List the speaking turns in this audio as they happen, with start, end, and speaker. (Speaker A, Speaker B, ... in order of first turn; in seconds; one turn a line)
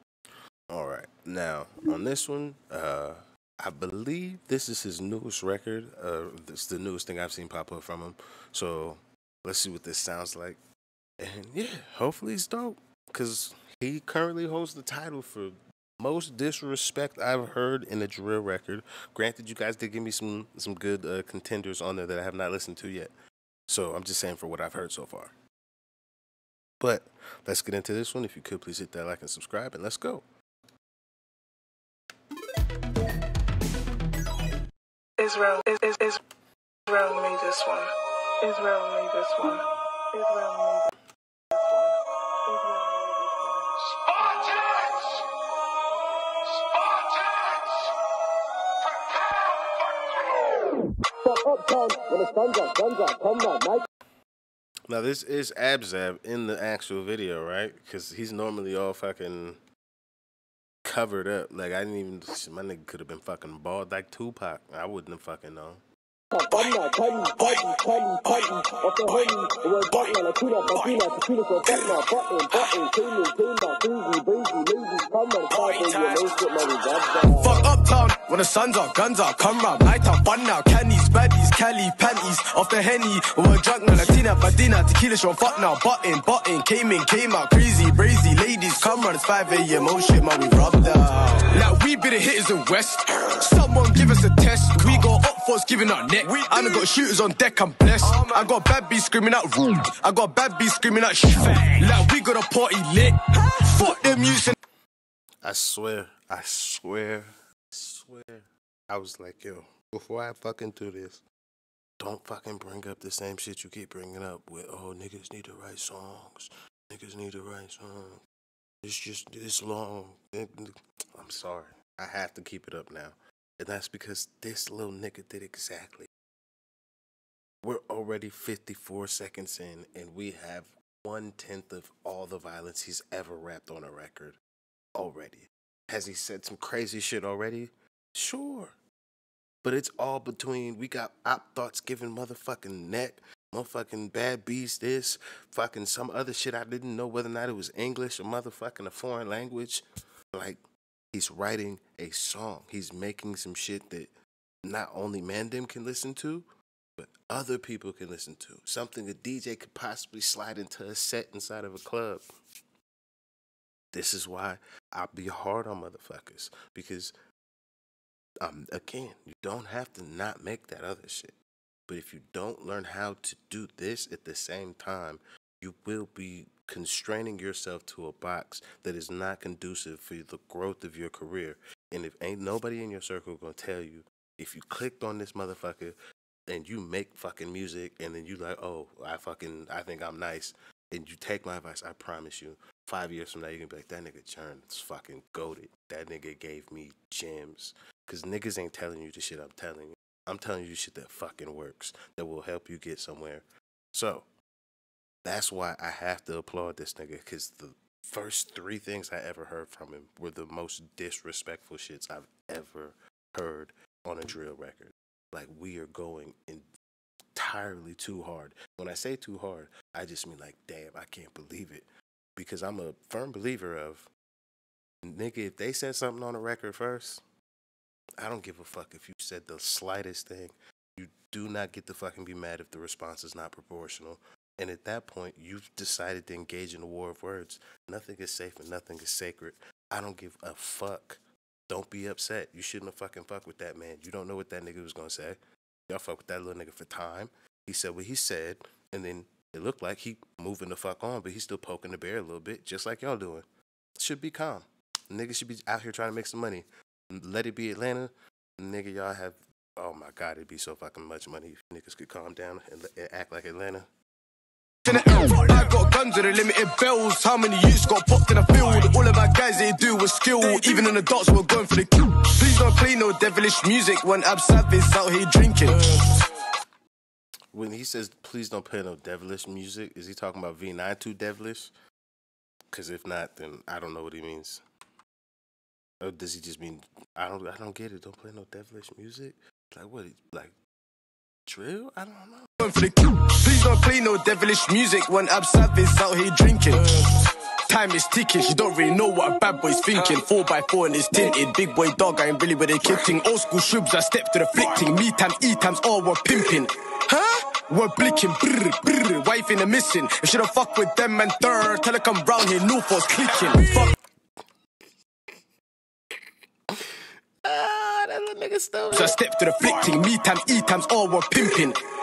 Speaker A: 0.7-10.6
Speaker A: 11.2-23.1
Speaker A: 23.7-25.3
Speaker A: 26.8-30.2
Speaker B: 35.2-36.2
Speaker B: 36.9-40.9
Speaker B: 41.5-45.0
Speaker C: 51.2-53.9
Speaker A: 54.9-59.6
Speaker A: 60.8-65.8
Speaker C: 66.3-77.7
Speaker D: 66.5-66.8
Speaker D: 67.4-69.3
Speaker D: 70.7-71.0
Speaker D: 71.6-72.8
Speaker D: 75.5-104.5
Speaker A: 105.4-111.2
Speaker A: 112.0-118.2
Speaker A: 118.8-126.1
Speaker A: 127.6-134.4
Speaker A: 134.9-138.8
Speaker A: 139.6-150.6
Speaker A: 151.1-154.1
Speaker A: 154.6-156.4
Speaker A: 157.0-162.2
Speaker A: 163.9-167.1
Speaker A: 168.4-171.3
Speaker A: 171.9-204.3
Speaker A: 205.2-216.7
Speaker A: 217.3-224.1
Speaker A: 225.0-227.2
Speaker A: 228.2-253.4
Speaker A: 254.0-263.9
Speaker D: 264.9-276.3
Speaker A: 277.5-281.7
Speaker A: 282.7-284.6
Speaker A: 286.0-290.5
Speaker A: 291.4-292.5
Speaker D: 292.6-313.9
Speaker A: 316.7-319.1
Speaker D: 318.9-321.8